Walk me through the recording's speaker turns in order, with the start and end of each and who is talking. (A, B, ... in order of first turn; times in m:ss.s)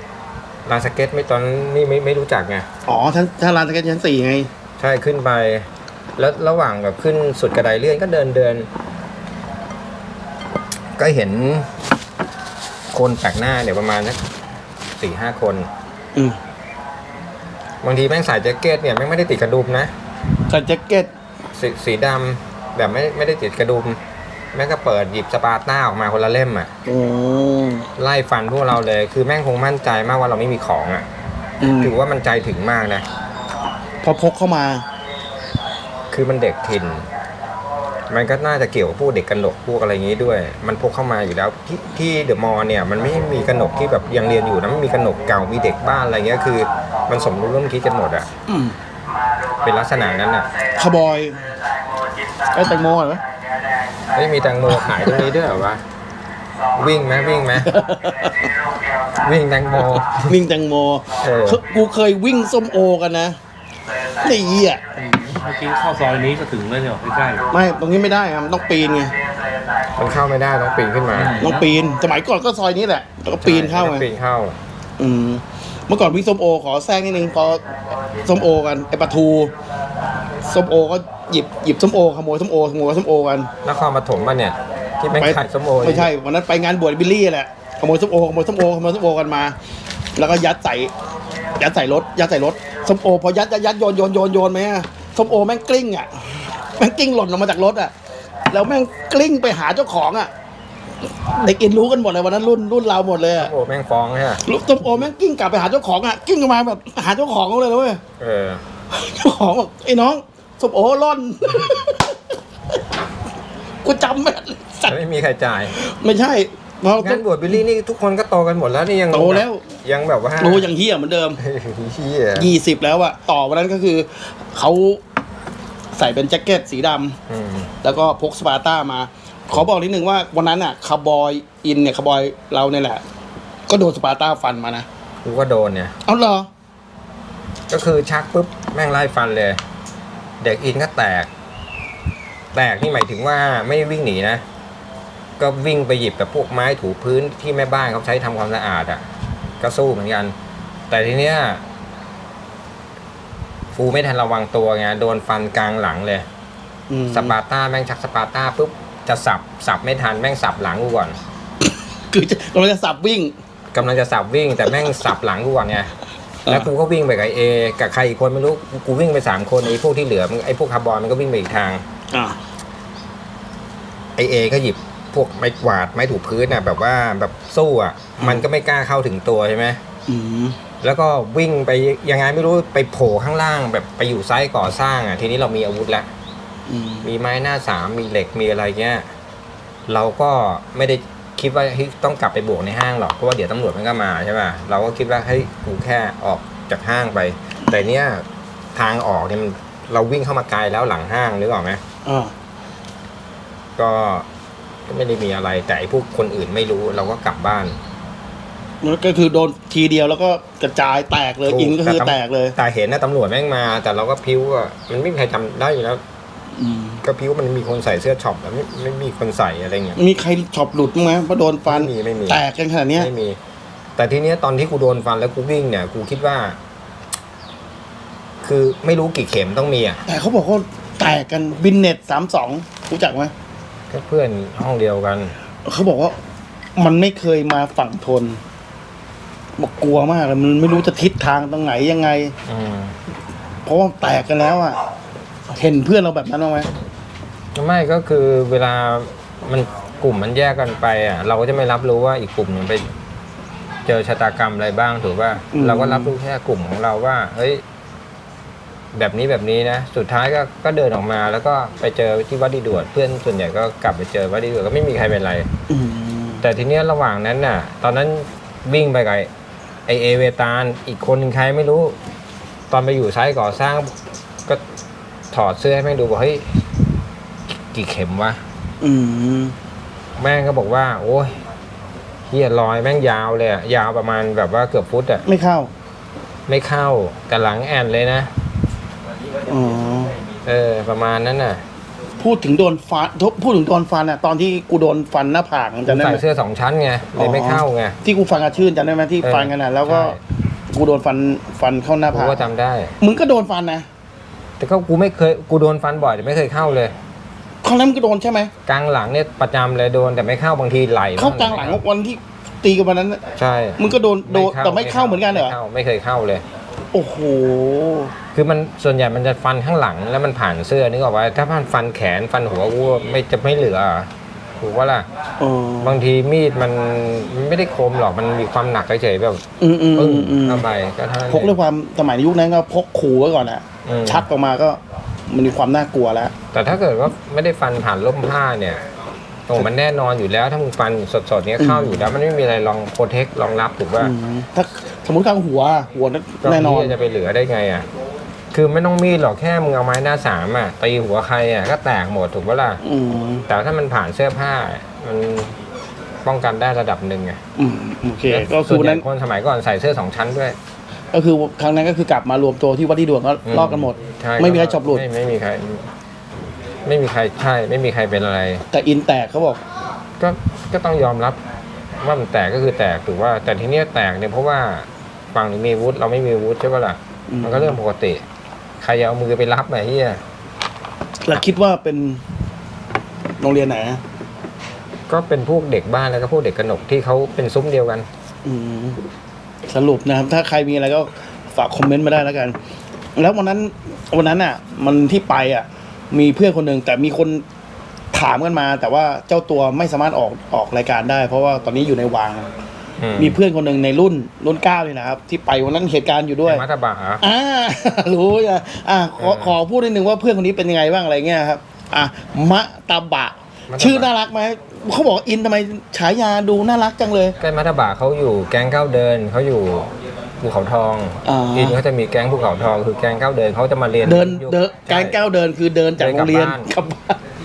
0:00.6-0:02.7 A
0:02.9-0:04.5 B
0:04.8-0:08.7 A
0:11.0-0:11.7 A
0:12.9-0:14.2 A
0:15.0-0:15.7 A
0:17.8-0:19.9 A
0:20.5-0:21.1 B
0:21.6-0:24.0 A
0:24.5-0:26.7 A
0:26.9-0:27.9 B
0:28.0-0:31.1 A
0:31.6-0:32.0 B
0:31.8-0:33.0 A
0:34.0-0:34.8 B
0:36.1-0:37.1 A
0:38.1-0:48.3 A
0:48.5-0:48.8 B
0:49.6-0:50.5 A
0:50.8-0:51.5 B
0:52.5-0:53.2 B
0:54.1-0:55.8 A
0:54.8-0:55.2 B
0:56.8-0:57.8 A
0:57.6-0:58.5 B
0:59.2-1:00.4 A
1:00.0-1:03.4 B
1:01.2-1:01.6 A
1:04.2-1:04.8 B
1:05.0-1:07.5 C
1:07.5-1:09.1 B
1:10.0-1:11.4 A
1:11.1-1:11.6 C
1:11.4-1:14.1 B
1:13.4-1:14.6 A
1:15.0-1:17.6 B
1:18.1-1:19.5 B
1:20.4-1:23.5 B
1:23.6-1:26.1 A
1:25.1-1:29.6 B
1:30.2-1:30.9 B
1:31.6-1:37.9 B
1:38.5-1:40.3 B
1:41.2-1:43.5 B
1:43.4-1:44.4 A
1:44.4-1:48.0 B
1:48.2-1:48.6 A
1:48.9-1:52.2 B
1:53.8-1:55.0 B
1:54.9-1:55.8 A
1:55.7-1:57.2 B
1:57.0-2:00.7 A
1:59.1-1:59.6 B
2:00.4-2:01.4 B
2:01.4-2:02.5 A
2:02.4-2:05.0 B
2:06.0-2:07.2 B
2:07.3-2:07.7 A
2:07.8-2:13.0 B
2:13.7-2:14.9 B
2:15.2-2:16.0 A
2:16.1-2:16.5 B
2:17.7-2:19.6 A
2:20.4-2:21.3 A
2:22.5-2:24.4 A
2:25.4-2:29.0 A
2:29.6-2:30.4 A
2:30.9-2:31.6 A
2:33.7-2:36.3 A
2:36.9-2:37.4 B
2:37.1-2:41.2 A
2:42.1-2:43.3 B
2:43.7-2:45.9 A
2:46.5-2:51.8 A
2:52.1-2:52.4 B
2:54.2-2:59.8 A
2:58.2-2:58.4 B
3:00.1-3:00.6 B
3:00.8-3:06.1 A
3:06.7-3:07.1 B
3:07.0-3:09.1 A
3:09.9-3:21.8 A
3:22.0-3:22.3 B
3:23.8-3:24.3 A
3:24.9-3:27.8 A
3:28.8-3:32.6 B
3:31.4-3:36.0 A
3:36.6-3:37.0 B
3:37.0-3:40.0 A
3:40.0-3:43.1 B
3:41.7-3:42.4 A
3:43.0-3:43.4 A
3:44.0-3:46.6 A
3:48.4-3:50.0 A
3:50.1-3:53.3 B
3:53.9-3:55.4 A
3:55.6-3:56.2 B
3:56.8-3:58.4 B
3:59.6-4:02.3 B
4:02.5-4:03.0 A
4:03.7-4:04.8 B
4:05.5-4:06.7 B
4:07.6-4:12.9 A
4:13.8-4:17.6 A
4:15.5-4:16.1 B
4:18.9-4:25.5 A
4:25.7-4:26.4 B
4:26.4-4:29.3 A
4:29.9-4:32.0 A
4:32.7-4:34.6 A
4:35.3-4:36.4 A
4:37.5-4:38.4 A
4:38.8-4:39.6 B
4:40.2-4:41.4 A
4:42.3-4:45.2 A
4:45.3-4:45.7 B
4:46.5-4:48.3 A
4:49.5-4:50.2 B
4:50.4-4:51.6 A
4:52.2-4:56.2 B
4:55.9-4:58.0 A
4:57.2-5:00.2 B
4:59.2-5:00.2 A
5:00.7-5:02.5 B
5:02.1-5:03.0 A
5:03.0-5:03.9 B
5:04.6-5:07.0 A
5:07.6-5:08.5 B
5:08.7-5:11.8 A
5:11.2-5:13.2 B
5:13.4-5:16.5 A
5:13.8-5:15.6 B
5:16.9-5:18.1 B
5:18.3-5:25.1 A
5:25.4-5:26.0 B
5:25.8-5:29.4 A
5:29.6-5:30.6 B
5:30.0-5:31.6 A
5:31.3-5:36.3 B
5:33.8-5:34.3 A
5:36.5-5:38.8 A
5:39.5-5:44.1 A
5:41.6-5:42.0 B
5:44.0-5:46.9 B
5:46.4-5:47.9 A
5:48.5-5:52.8 A
5:52.8-5:53.5 B
5:53.5-5:55.6 A
5:56.2-5:57.4 A
5:57.6-5:59.0 B
5:58.3-6:00.6 A
6:01.1-6:05.0 B
6:03.5-6:05.9 A
6:06.8-6:08.7 A
6:08.7-6:09.6 B
6:10.2-6:11.4 A
6:12.0-6:18.2 A
6:17.3-6:17.8 B
6:18.8-6:20.2 A
6:21.2-6:22.2 B
6:23.4-6:24.0 B
6:25.1-6:28.1 A
6:28.4-6:29.0 B
6:29.7-6:32.6 B
6:33.2-6:37.4 B
6:38.1-6:42.5 B
6:43.0-6:43.4 A
6:43.2-6:46.6 B
6:46.5-6:47.2 A
6:47.2-6:57.4 B
6:49.2-6:49.6 A
6:53.7-6:54.1 A
6:57.4-7:05.2 A
7:01.2-7:01.8 B
7:04.0-7:07.2 B
7:06.0-7:06.7 A